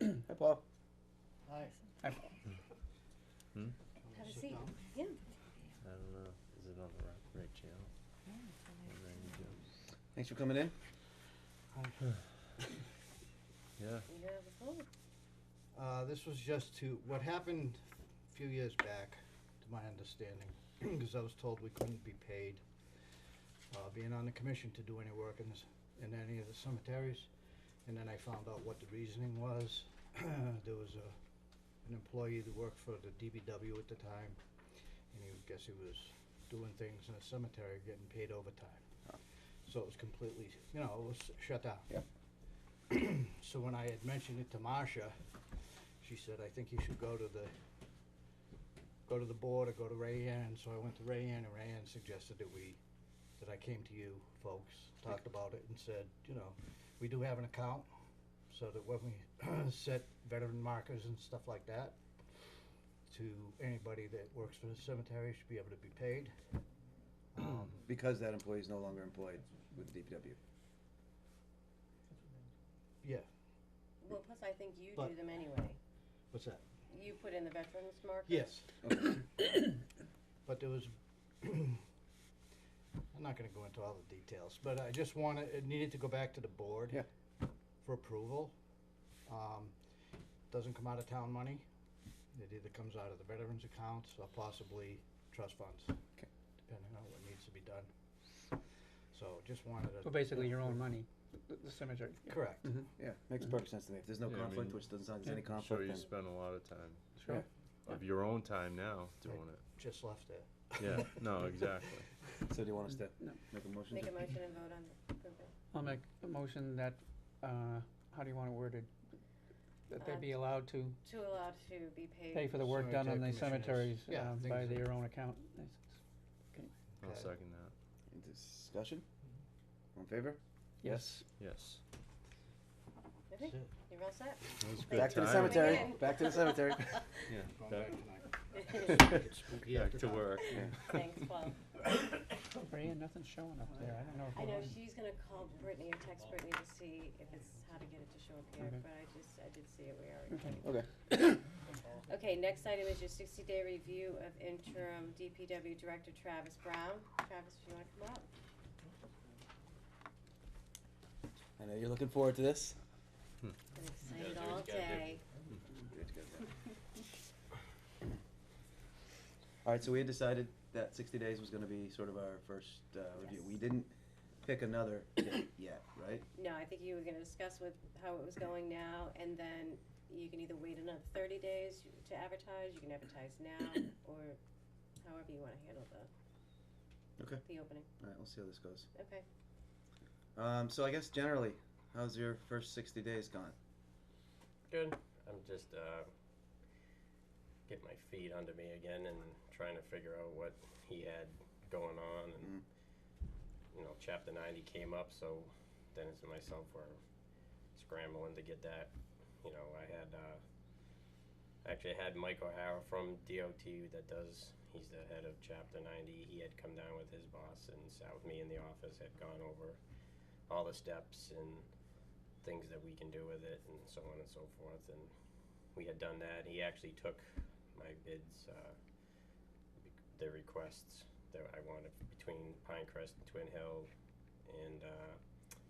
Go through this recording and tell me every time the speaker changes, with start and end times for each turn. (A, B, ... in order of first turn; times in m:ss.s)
0:00.2-0:00.6 A
0:02.0-0:02.3 B
0:04.0-0:04.8 C
0:04.1-0:05.2 D
0:05.8-0:07.9 E
0:08.8-0:09.6 E
0:10.1-0:10.7 A
0:11.7-0:12.0 C
0:13.8-0:14.0 E
0:14.1-0:14.8 D
0:15.7-0:22.6 C
0:23.7-0:27.3 C
0:27.8-0:31.2 C
0:31.8-0:34.4 C
0:35.1-0:38.8 C
0:39.6-0:41.9 C
0:42.9-0:45.1 C
0:46.0-0:47.5 C
0:49.0-0:52.8 C
0:53.4-0:57.9 C
0:58.5-1:02.0 C
1:03.1-1:06.3 C
1:07.3-1:07.8 C
1:07.8-1:10.4 A
1:13.0-1:13.3 C
1:14.0-1:15.8 D
1:16.3-1:16.6 C
1:16.9-1:18.5 D
1:18.3-1:18.7 C
1:18.8-1:19.2 A
1:20.4-1:21.8 C
1:23.1-1:27.0 C
1:27.8-1:28.5 C
1:29.3-1:29.8 C
1:30.5-1:31.6 C
1:32.3-1:36.0 C
1:36.6-1:37.9 C
1:39.1-1:40.9 C
1:40.0-1:42.9 B
1:42.2-1:42.9 C
1:43.0-1:46.1 A
1:44.2-1:47.2 E
1:47.2-1:48.0 B
1:47.8-1:49.6 E
1:49.3-1:52.0 C
1:50.8-1:52.1 E
1:52.5-1:54.2 A
1:53.9-1:55.5 D
1:55.7-1:59.0 B
1:59.9-2:01.0 B
2:00.0-2:02.6 D
2:02.3-2:05.9 B
2:02.6-2:04.9 C
2:07.0-2:07.7 E
2:07.0-2:07.3 C
2:08.1-2:09.0 A
2:09.9-2:11.1 A
2:10.8-2:11.2 B
2:11.4-2:11.8 E
2:13.3-2:17.1 D
2:13.4-2:13.7 C
2:14.6-2:15.9 E
2:14.9-2:17.0 A
2:17.3-2:18.0 E
2:17.4-2:20.4 C
2:18.5-2:19.2 D
2:18.9-2:21.0 E
2:20.4-2:21.6 D
2:20.5-2:20.8 A
2:22.6-2:24.6 B
2:24.3-2:30.7 D
2:28.6-2:28.8 B
2:30.3-2:31.4 B
2:32.1-2:38.3 D
2:41.6-2:42.8 A
2:43.7-2:45.2 D
2:44.1-2:45.2 F
2:45.8-2:46.5 A
2:49.6-2:56.2 A
2:53.2-2:53.4 D
2:56.3-3:04.4 D
3:05.0-3:06.1 D
3:07.2-3:07.4 A
3:07.4-3:07.9 D
3:08.0-3:08.9 A
3:08.9-3:09.2 D
3:10.3-3:13.5 A
3:14.7-3:16.1 F
3:17.7-3:22.6 F
3:23.7-3:27.0 F
3:27.7-3:30.4 F
3:31.6-3:39.8 F
3:40.5-3:41.7 F
3:42.4-3:45.1 F
3:45.7-3:48.8 F
3:49.8-3:53.9 F
3:54.4-3:55.2 F